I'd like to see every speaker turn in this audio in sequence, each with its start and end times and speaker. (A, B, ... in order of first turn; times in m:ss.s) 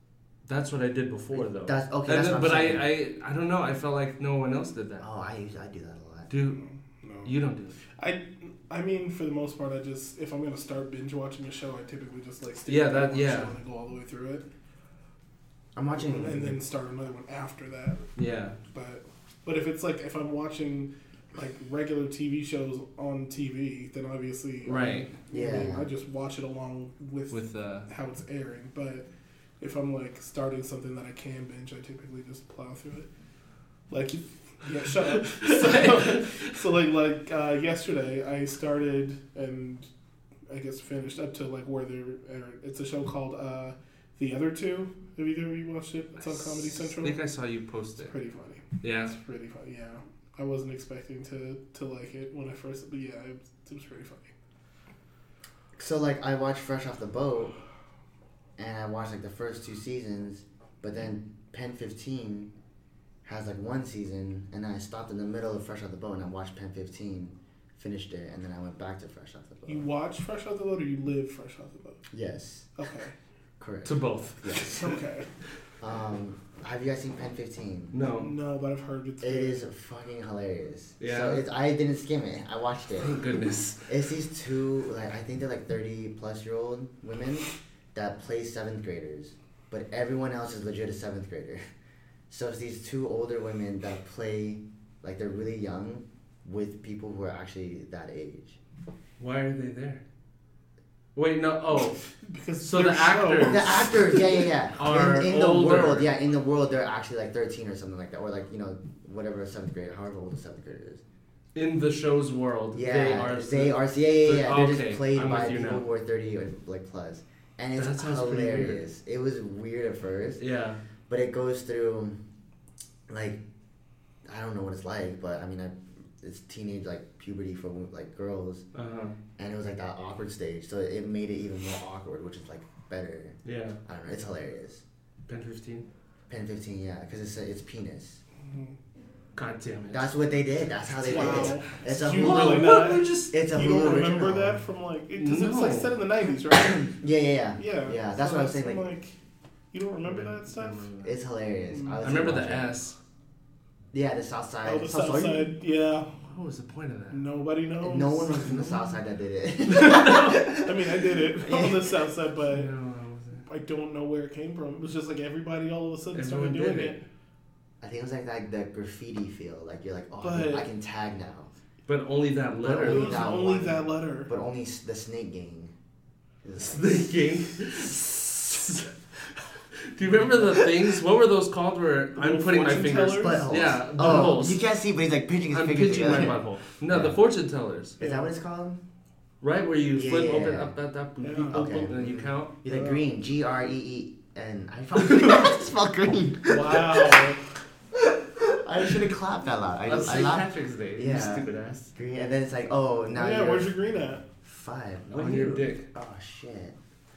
0:00.4-0:05.0 A
0:01.3-0:02.9 B
0:05.0-0:06.3 B
0:06.3-0:06.6 A
0:06.6-0:07.3 C
0:07.2-0:07.8 A
0:08.0-0:14.4 C
0:12.7-0:13.5 A
0:15.8-0:16.6 B
0:16.0-0:18.1 C
0:18.2-0:18.6 A
0:18.7-0:29.0 C
0:24.6-0:25.1 A
0:25.3-0:25.9 B
0:27.3-0:27.9 A
0:29.6-0:33.1 C
0:33.9-0:39.9 C
0:35.0-0:36.6 A
0:40.5-0:47.2 C
0:46.2-0:48.1 A
0:48.0-0:54.3 C
0:48.8-0:49.1 A
0:55.8-0:57.6 B
0:58.6-1:02.5 B
1:03.2-1:09.9 B
1:09.7-1:12.1 C
1:12.1-1:12.7 B
1:12.8-1:13.1 C
1:13.6-1:15.0 B
1:13.8-1:14.6 A
1:14.7-1:15.3 C
1:15.8-1:17.9 B
1:17.9-1:18.3 A
1:18.2-1:19.6 C
1:19.2-1:23.2 B
1:21.0-1:21.4 A
1:23.0-1:23.8 A
1:23.9-1:31.6 B
1:32.3-1:38.6 B
1:39.2-1:40.0 A
1:41.2-1:42.0 A
1:42.2-1:44.2 C
1:42.6-1:43.9 A
1:43.4-1:51.0 B
1:44.8-1:46.1 A
1:51.6-1:55.8 A
1:52.7-2:00.4 B
1:57.8-1:58.8 A
2:00.4-2:00.8 A
2:01.1-2:02.2 B
2:03.1-2:03.4 B
2:04.3-2:08.7 B
2:08.7-2:09.2 A
2:09.4-2:14.8 B
2:13.4-2:13.8 A
2:15.3-2:15.9 A
2:16.3-2:18.2 B
2:18.4-2:18.8 C
2:19.4-2:20.1 A
2:19.9-2:24.6 B
2:21.0-2:27.0 C
2:21.2-2:21.5 A
2:22.1-2:23.4 A
2:25.2-2:25.9 A
2:26.7-2:28.9 B
2:27.6-2:29.2 C
2:29.7-2:30.9 C
2:30.0-2:31.2 A
2:31.0-2:32.8 B
2:31.7-2:32.0 C
2:32.0-2:33.0 A
2:33.9-2:35.5 B
2:34.6-2:36.1 C
2:36.3-2:37.2 A
2:37.1-2:38.5 C
2:37.8-2:42.0 B
2:38.4-2:38.8 A
2:39.7-2:40.5 A
2:40.5-2:42.7 C
2:42.5-2:43.4 A
2:43.5-2:47.0 C
2:46.1-2:47.0 A
2:47.8-2:51.5 B
2:50.2-2:50.7 C
2:51.9-2:53.4 A
2:52.6-2:55.7 B
2:52.8-2:54.3 C
2:56.4-2:57.1 B
2:56.6-2:58.9 A
2:59.7-3:04.6 A
3:02.2-3:03.4 C
3:03.2-3:07.2 B
3:05.5-3:08.0 A
3:08.0-3:08.3 C
3:08.0-3:08.8 B
3:09.4-3:12.5 A
3:09.9-3:10.7 B
3:11.2-3:11.8 C
3:11.5-3:17.3 B
3:12.7-3:13.0 C
3:16.5-3:17.4 C
3:18.2-3:23.7 B
3:19.8-3:21.9 A
3:23.1-3:24.2 C
3:24.4-3:26.8 B
3:25.1-3:25.9 A